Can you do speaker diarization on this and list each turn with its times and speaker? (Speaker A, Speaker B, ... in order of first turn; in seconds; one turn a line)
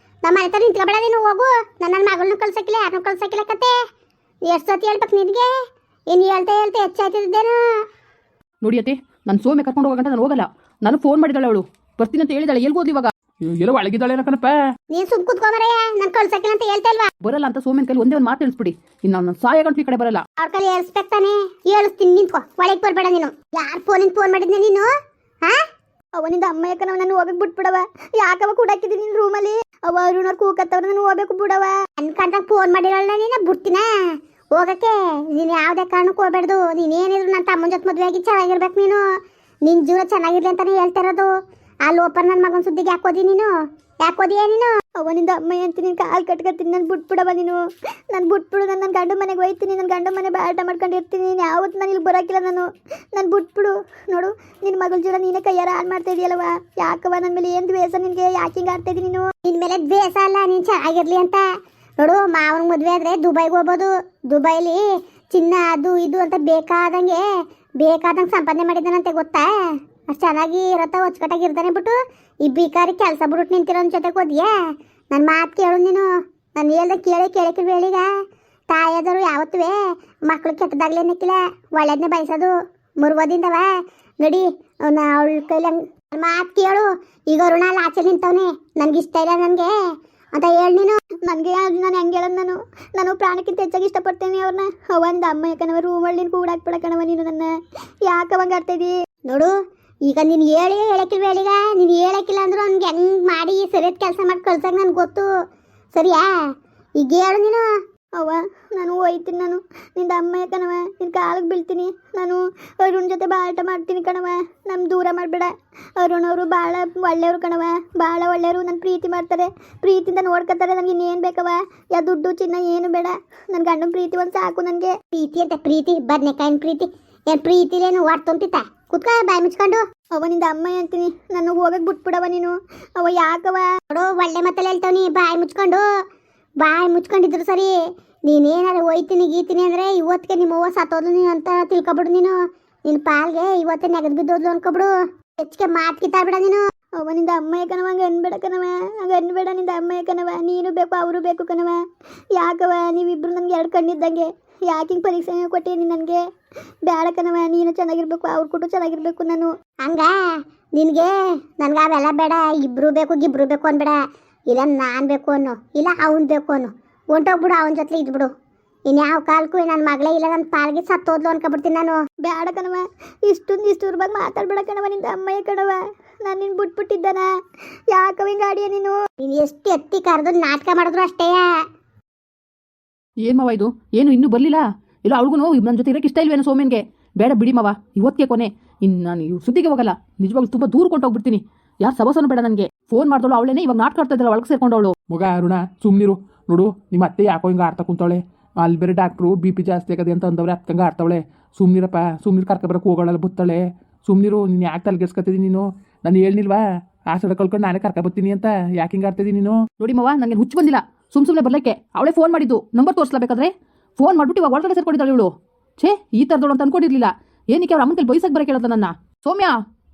Speaker A: 0.2-3.8
Speaker A: 4.5-5.5
Speaker A: 6.1-7.8
Speaker B: 8.6-13.1
Speaker C: 13.4-14.6
Speaker A: 14.9-17.1
Speaker B: 17.2-20.2
Speaker A: 20.4-24.9
Speaker D: 26.2-31.7
Speaker A: 32.0-33.9
Speaker A: 34.5-39.0
Speaker A: 39.7-41.3
Speaker A: 41.9-43.5
Speaker A: 44.0-44.7
Speaker D: 45.0-47.6
Speaker D: 48.1-59.3
Speaker A: 59.5-61.4
Speaker A: 62.0-67.2
Speaker A: 67.8-69.5
Speaker A: 70.1-74.5
Speaker A: 75.1-78.1
Speaker A: 78.7-79.8
Speaker A: 80.3-83.7
Speaker A: 84.2-89.7
Speaker A: 90.3-91.0
Speaker D: 91.2-97.5
Speaker D: 98.1-98.9
Speaker A: 99.3-99.5
Speaker A: 100.1-105.3
Speaker A: 105.9-106.3
Speaker A: 107.0-107.7
Speaker D: 108.2-124.9
Speaker A: 125.1-129.8
Speaker D: 130.2-133.7
Speaker A: 133.9-135.8
Speaker A: 136.6-137.7
Speaker A: 138.3-142.4
Speaker A: 142.9-146.6
Speaker D: 147.0-151.8
Speaker D: 152.4-156.2
Speaker D: 156.9-159.5
Speaker A: 159.8-160.1
Speaker A: 160.8-164.0
Speaker A: 164.5-168.3
Speaker A: 168.9-172.0
Speaker D: 172.2-177.3
Speaker D: 177.9-178.9
Speaker A: 179.2-181.5
Speaker B: 183.2-194.9
Speaker C: 195.1-209.6
Speaker B: 209.8-219.6